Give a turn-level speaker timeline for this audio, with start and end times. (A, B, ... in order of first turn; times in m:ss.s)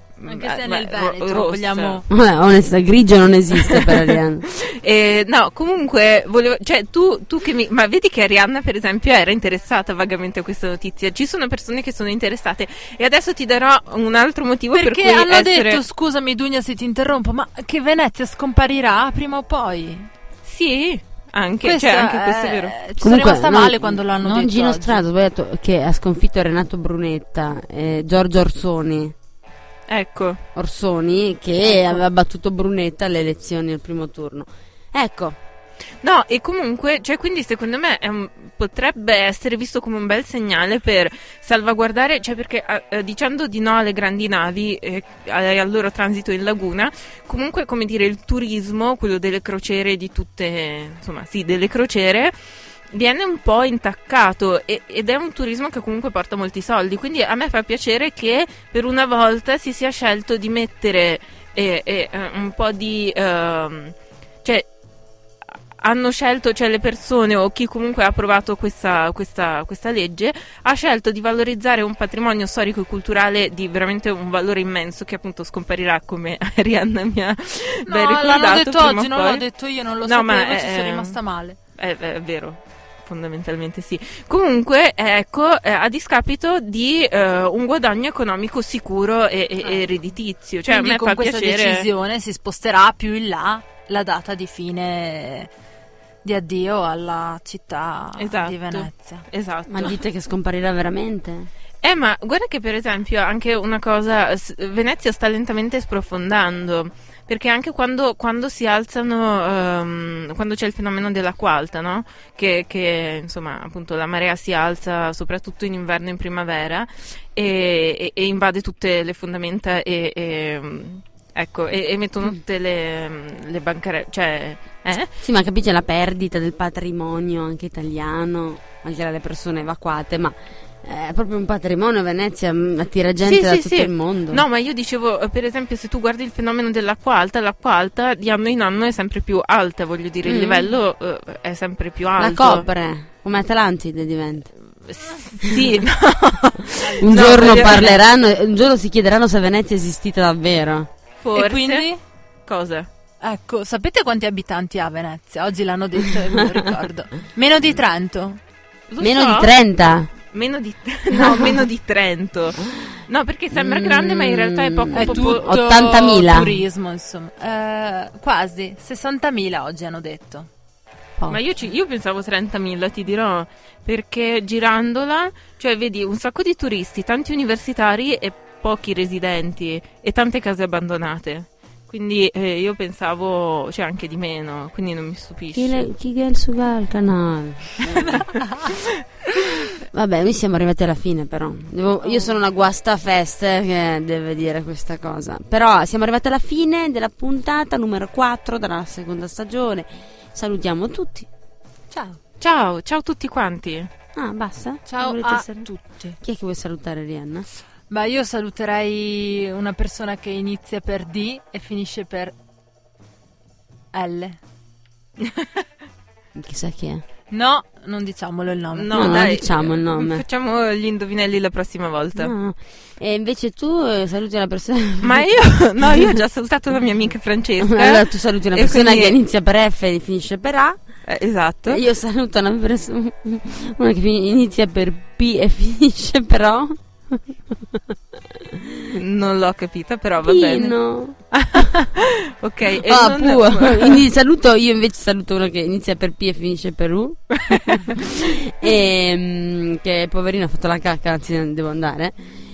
0:00.2-0:02.0 A
0:00.2-0:02.0 B
0:02.1-0:04.4 C
0:03.6-0:15.8 A
0:14.7-0:20.1 B
0:20.4-0:22.7 A
0:21.6-0:25.0 B
0:23.0-0:29.1 C
0:29.9-0:30.4 A
0:30.5-0:35.4 C
0:31.6-0:32.0 B
0:36.0-0:52.3 A
0:52.9-1:04.7 A
1:05.8-1:19.4 A
1:17.8-1:21.6 B
1:20.0-1:21.2 A
1:21.8-1:31.9 A
1:29.6-1:29.9 B
1:30.7-1:35.5 B
1:36.2-1:39.2 B
1:38.2-1:40.0 A
1:39.7-1:41.5 C
1:41.8-2:05.1 A
2:05.2-2:14.4 C
2:13.2-2:22.7 A
2:20.2-2:20.7 C
2:22.2-2:24.5 C
2:24.8-2:28.0 A
2:26.8-2:28.0 B
2:27.0-2:30.9 C
2:31.2-2:31.9 A
2:31.3-2:32.0 B
2:32.4-2:32.9 A
2:33.2-2:38.4 B
2:38.9-2:39.5 A
2:39.0-2:40.1 C
2:40.3-2:45.6 A
2:41.1-2:41.6 C
2:43.5-2:46.6 C
2:44.9-2:50.5 B
2:51.3-3:05.9 A
3:05.5-3:08.4 C
3:07.9-3:08.7 B
3:09.9-3:21.3 C
3:12.0-3:12.3 B
3:21.9-3:22.2 B
3:22.4-3:23.9 A
3:24.1-3:25.7 C
3:24.8-3:26.2 B
3:26.2-3:27.5 C
3:27.9-3:32.3 B
3:33.9-3:34.4 B
3:35.2-3:35.6 A
3:36.3-3:37.0 C
3:37.3-3:39.2 B
3:38.7-3:42.3 A
3:38.9-3:40.2 C
3:42.2-3:46.2 C
3:45.0-3:49.2 A
3:47.6-3:50.8 C
3:51.1-3:51.8 A
3:51.7-3:59.0 C
3:58.9-4:00.8 A
4:00.2-4:01.6 C
4:01.3-4:04.1 A
4:02.8-4:12.1 C
4:07.4-4:08.1 A